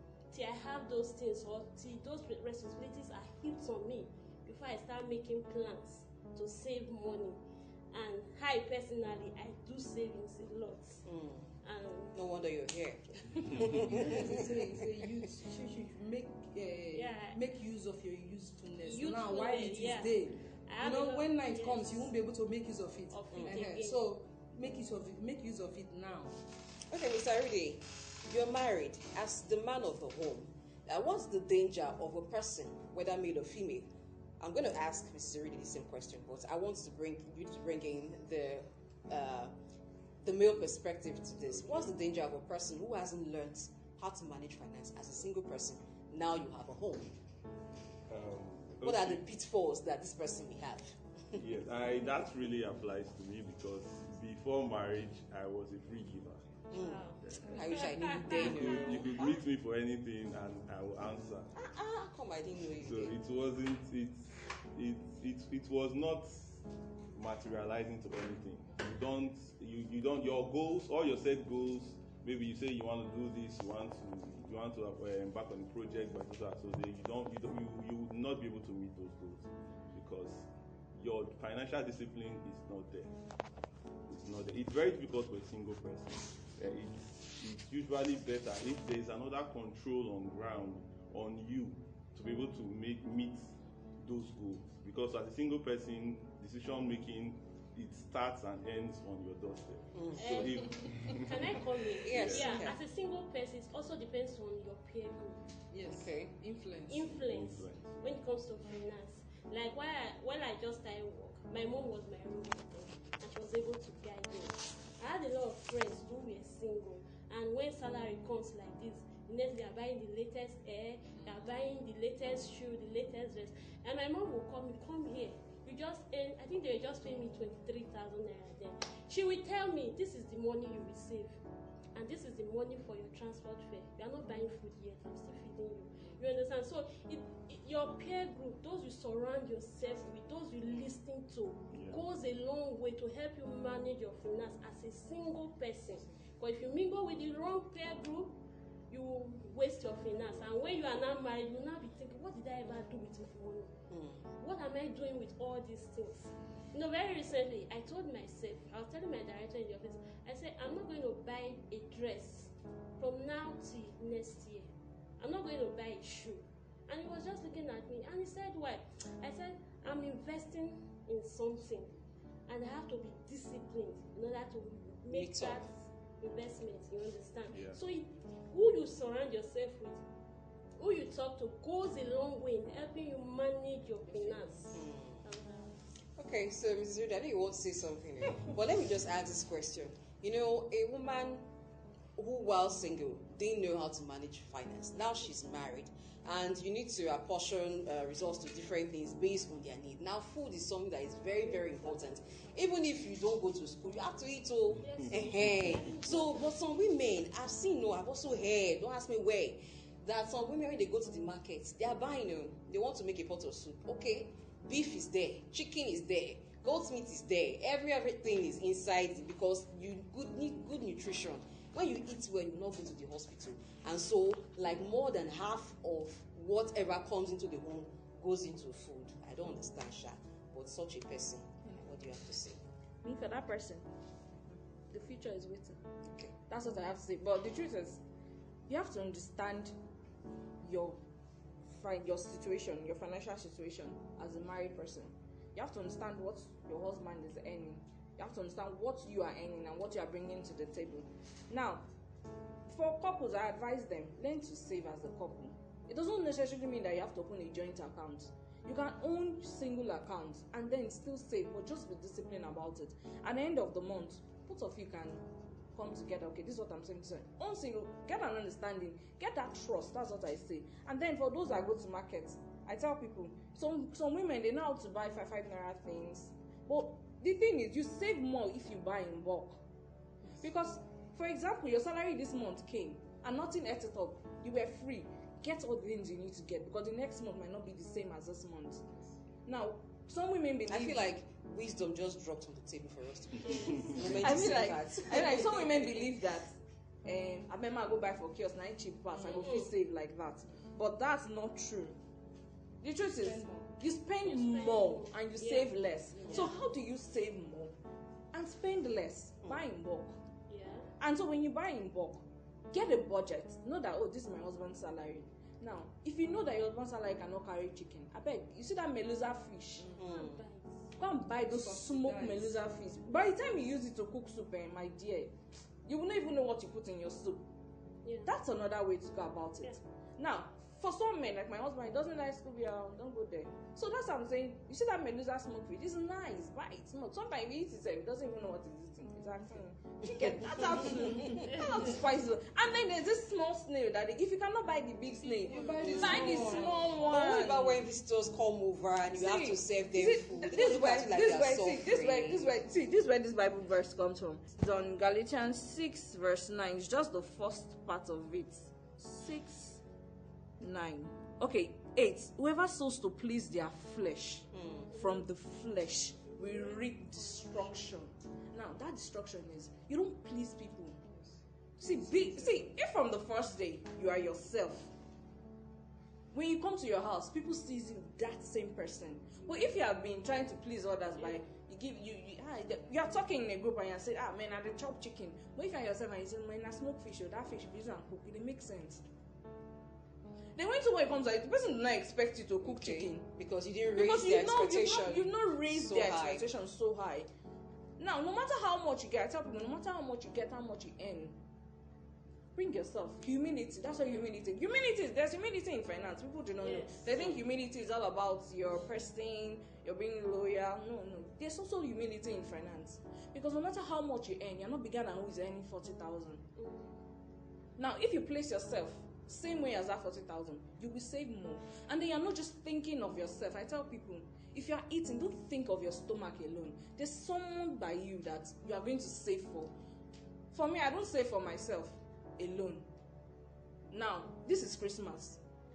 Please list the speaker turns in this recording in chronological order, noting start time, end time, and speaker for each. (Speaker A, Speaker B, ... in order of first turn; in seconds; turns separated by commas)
Speaker A: 0.3-7.4, Speaker A: 7.9-11.1, Speaker B: 11.0-11.5, Speaker A: 11.6-12.2, Speaker B: 12.1-14.4, Speaker C: 13.8-26.4, Speaker A: 16.9-17.4, Speaker A: 18.8-22.1, Speaker A: 23.1-24.1, Speaker B: 23.3-23.6, Speaker B: 26.9-39.5, Speaker B: 40.2-47.2, Speaker D: 41.4-41.9, Speaker D: 48.1-49.2, Speaker B: 48.8-51.4, Speaker D: 51.3-56.6, Speaker B: 56.7-59.2, Speaker A: 56.7-59.4, Speaker D: 57.2-61.5, Speaker B: 61.5-63.2, Speaker D: 62.8-66.6, Speaker D: 67.1-83.1, Speaker D: 84.1-102.7, Speaker B: 99.9-100.4, Speaker A: 100.1-105.5, Speaker B: 102.0-102.8, Speaker C: 105.7-107.1, Speaker B: 105.9-106.3, Speaker A: 106.9-131.4, Speaker D: 107.0-108.1, Speaker A: 131.9-153.7, Speaker D: 141.7-142.0, Speaker B: 153.9-154.3, Speaker A: 154.3-180.0, Speaker B: 175.1-175.7, Speaker D: 177.5-177.8, Speaker A: 180.8-185.8, Speaker C: 184.1-184.6, Speaker B: 184.7-185.2, Speaker B: 186.2-191.5, Speaker B: 192.2-232.7, Speaker A: 201.3-202.6, Speaker D: 204.8-205.9, Speaker A: 204.8-206.6, Speaker E: 233.0-233.9, Speaker E: 234.5-235.8, Speaker B: 236.0-236.3, Speaker E: 236.5-238.0, Speaker E: 238.7-239.8, Speaker E: 240.6-241.0, Speaker E: 241.7-251.8, Speaker E: 252.7-279.6, Speaker E: 280.4-288.8, Speaker E: 289.4-291.1, Speaker B: 290.7-296.1, Speaker A: 293.4-294.2, Speaker E: 294.0-302.0, Speaker A: 299.2-299.7, Speaker E: 302.8-307.7, Speaker C: 303.0-303.7, Speaker A: 304.2-306.6, Speaker E: 308.3-310.2, Speaker A: 310.5-310.9, Speaker E: 311.0-319.9, Speaker A: 319.8-320.8, Speaker B: 320.0-320.4, Speaker E: 321.0-325.3, Speaker C: 321.5-322.7, Speaker E: 325.8-327.5, Speaker A: 328.0-328.3, Speaker E: 328.2-347.9, Speaker C: 345.2-347.0, Speaker B: 345.8-352.6, Speaker E: 349.1-359.8, Speaker E: 360.6-371.0, Speaker B: 364.5-364.9, Speaker A: 365.0-365.2, Speaker A: 366.3-367.4, Speaker E: 371.8-374.9, Speaker C: 371.8-372.6, Speaker E: 376.3-389.0, Speaker E: 390.6-393.3, Speaker B: 392.6-396.5, Speaker E: 393.9-397.3, Speaker E: 398.0-401.4, Speaker E: 402.5-416.4, Speaker A: 406.6-407.4, Speaker A: 416.6-417.0, Speaker E: 417.8-429.7, Speaker E: 430.5-432.9, Speaker E: 433.9-435.4